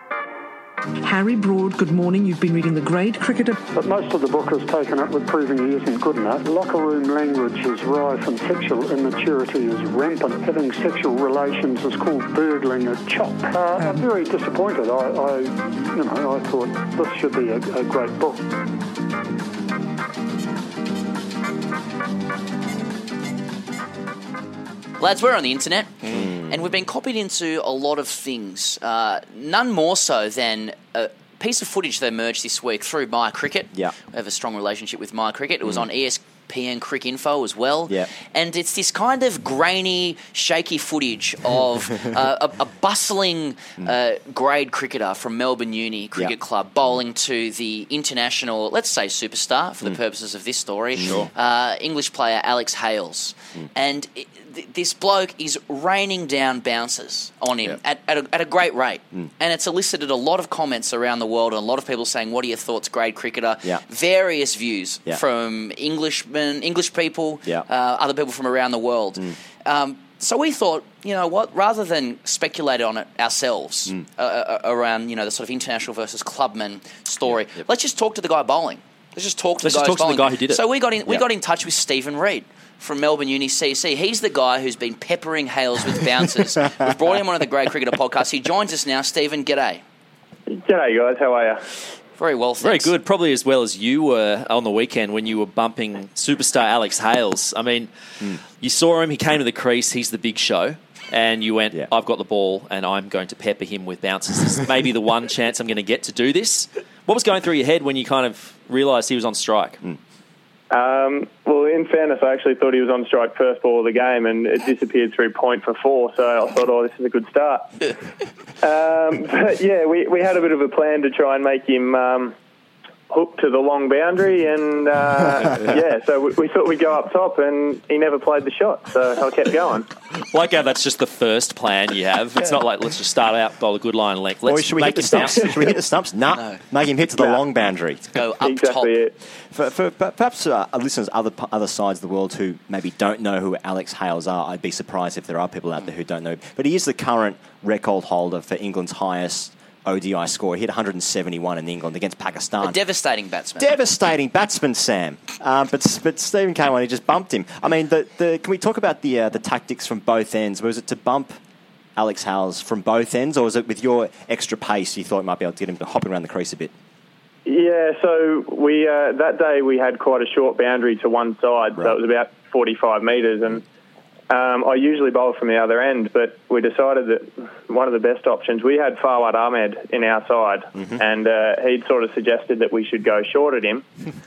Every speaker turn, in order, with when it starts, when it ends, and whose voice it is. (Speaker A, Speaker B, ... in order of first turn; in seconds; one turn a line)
Speaker A: 1.0-3.6
Speaker B: 3.7-18.5
Speaker C: 25.0-89.8
Speaker D: 26.1-26.5
Speaker D: 51.0-51.3
Speaker E: 79.6-80.6
Speaker F: 90.5-91.6
Speaker C: 92.2-92.9
Speaker E: 92.6-97.9
Speaker E: 98.6-109.8
Speaker F: 110.7-117.9
Speaker F: 118.6-122.3
Speaker F: 123.1-129.9
Speaker E: 130.2-135.8
Speaker D: 134.4-138.0
Speaker C: 136.3-136.6
Speaker C: 138.1-138.9
Speaker F: 138.4-139.1
Speaker D: 139.5-152.8
Speaker C: 152.6-153.7
Speaker D: 153.6-161.4
Speaker D: 161.9-166.7
Speaker F: 167.4-173.6
Speaker F: 174.3-183.8